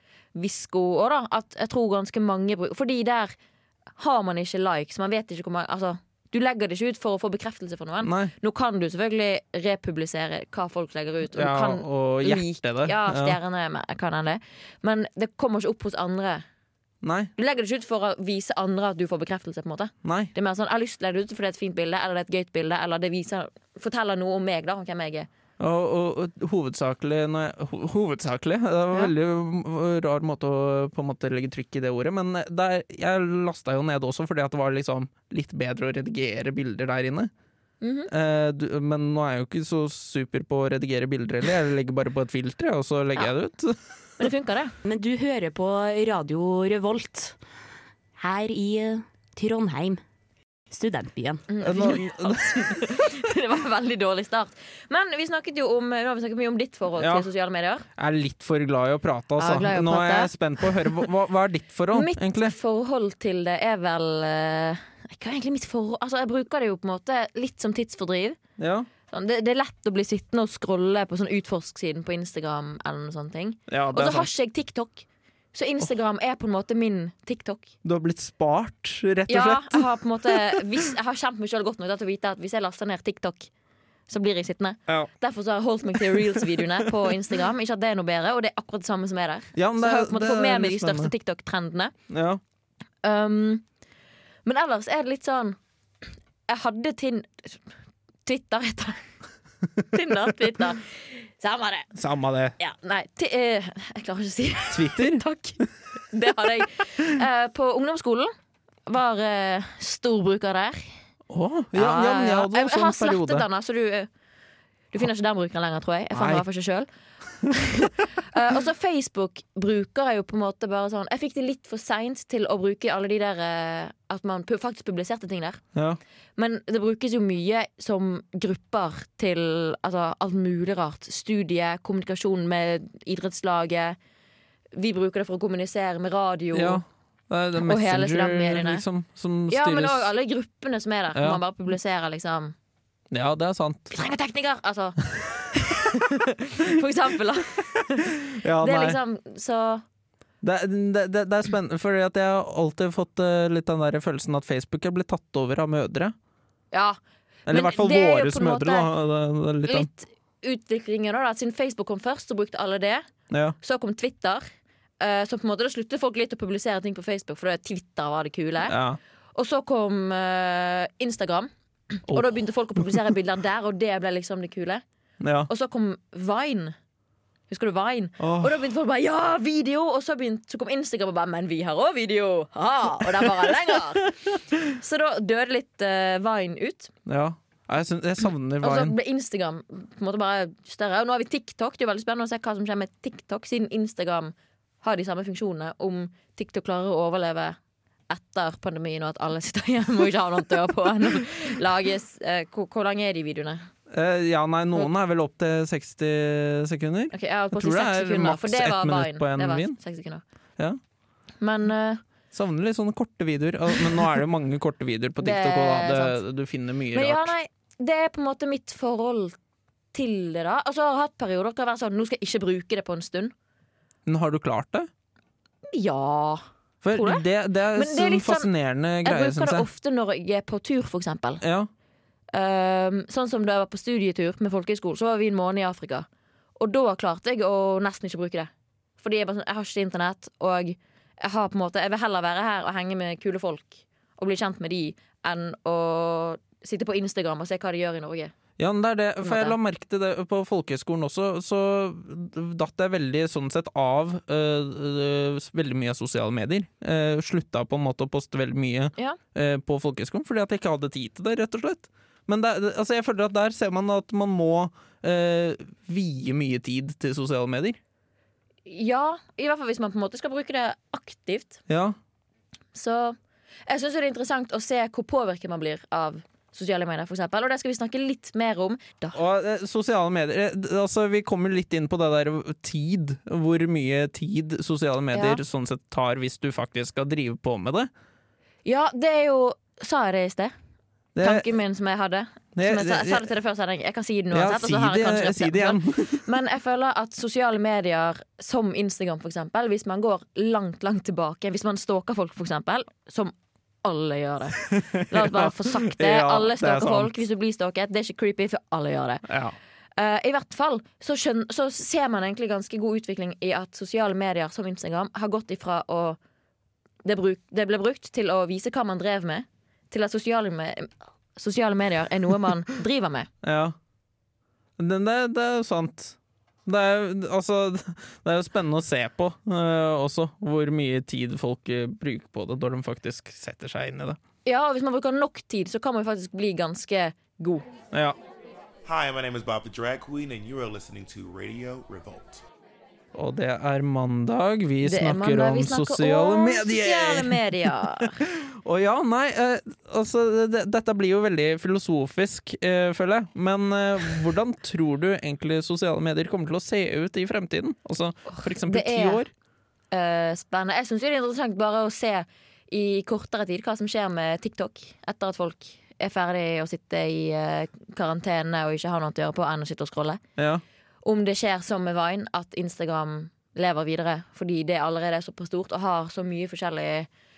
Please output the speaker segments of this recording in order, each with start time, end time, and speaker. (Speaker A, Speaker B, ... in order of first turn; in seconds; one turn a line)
Speaker A: 0.3-3.4
Speaker A: 4.0-16.4
Speaker B: 8.0-8.3
Speaker B: 11.3-13.4
Speaker B: 17.0-17.3
Speaker A: 17.4-25.3
Speaker B: 20.0-20.3
Speaker B: 25.6-37.3
Speaker A: 37.8-38.1
Speaker B: 38.1-43.8
Speaker A: 44.2-44.7
Speaker C: 44.8-47.4
Speaker C: 48.2-50.0
Speaker C: 50.7-52.0
Speaker A: 51.5-57.9
Speaker B: 51.6-52.8
Speaker B: 57.0-57.3
Speaker B: 58.0-62.5
Speaker A: 59.4-61.0
Speaker A: 61.9-68.4
Speaker B: 68.6-68.9
Speaker A: 69.1-77.7
Speaker B: 73.7-74.3
Speaker B: 77.8-80.8
Speaker A: 79.3-83.5
Speaker A: 84.1-91.9
Speaker B: 89.5-91.1
Speaker B: 92.1-92.4
Speaker A: 93.0-93.6
Speaker A: 94.4-95.6
Speaker A: 96.5-97.6
Speaker A: 98.2-99.1
Speaker A: 99.9-101.9
Speaker B: 101.9-102.5
Speaker A: 102.6-108.3
Speaker B: 104.7-105.2
Speaker A: 108.9-110.9
Speaker B: 111.3-113.5
Speaker A: 111.7-114.1
Speaker A: 114.9-116.9
Speaker B: 116.1-116.4
Speaker A: 117.4-125.6
Speaker B: 125.7-126.0
Speaker A: 126.3-134.0
Speaker A: 134.7-136.8
Speaker B: 136.5-140.1
Speaker A: 137.6-138.8
Speaker A: 139.5-142.5
Speaker B: 141.1-141.4
Speaker B: 143.1-143.9
Speaker A: 143.9-145.0
Speaker A: 145.5-149.8
Speaker B: 148.3-149.0
Speaker B: 150.4-156.1
Speaker A: 156.7-158.9
Speaker B: 157.5-159.9
Speaker A: 159.7-163.1
Speaker B: 163.3-163.6
Speaker A: 163.6-164.4
Speaker A: 165.0-168.8
Speaker B: 168.7-169.0
Speaker A: 169.3-174.8
Speaker B: 175.2-175.5
Speaker A: 175.5-176.7
Speaker A: 177.5-186.9
Speaker B: 178.2-178.6
Speaker B: 183.4-183.7
Speaker B: 187.1-188.9
Speaker A: 188.6-197.6
Speaker A: 198.1-203.7
Speaker B: 203.9-209.8
Speaker A: 207.1-210.2
Speaker A: 211.4-212.0
Speaker B: 212.3-217.3
Speaker A: 215.2-216.2
Speaker A: 216.9-219.4
Speaker A: 219.9-223.3
Speaker B: 224.1-224.9
Speaker A: 225.7-228.5
Speaker B: 226.8-229.7
Speaker A: 229.0-231.4
Speaker B: 231.4-231.7
Speaker A: 232.3-236.1
Speaker A: 236.6-248.3
Speaker B: 248.6-267.8
Speaker A: 249.2-249.6
Speaker A: 268.6-271.6
Speaker B: 271.7-271.9
Speaker A: 272.7-273.1
Speaker A: 273.7-279.2
Speaker B: 279.1-287.9
Speaker A: 285.1-285.4
Speaker A: 288.6-290.5
Speaker B: 291.1-291.5
Speaker A: 291.2-303.3
Speaker B: 292.5-293.3
Speaker B: 294.3-296.2
Speaker A: 303.8-309.2
Speaker B: 304.6-307.1
Speaker B: 309.2-309.6
Speaker A: 310.0-316.2
Speaker A: 317.0-323.3
Speaker B: 323.4-323.7
Speaker B: 324.8-334.2
Speaker A: 334.4-337.6
Speaker B: 337.9-338.2
Speaker D: 338.8-342.4
Speaker B: 343.1-359.3
Speaker A: 344.8-348.2
Speaker A: 358.3-359.2
Speaker A: 359.9-370.2
Speaker B: 370.4-370.6
Speaker A: 371.0-377.1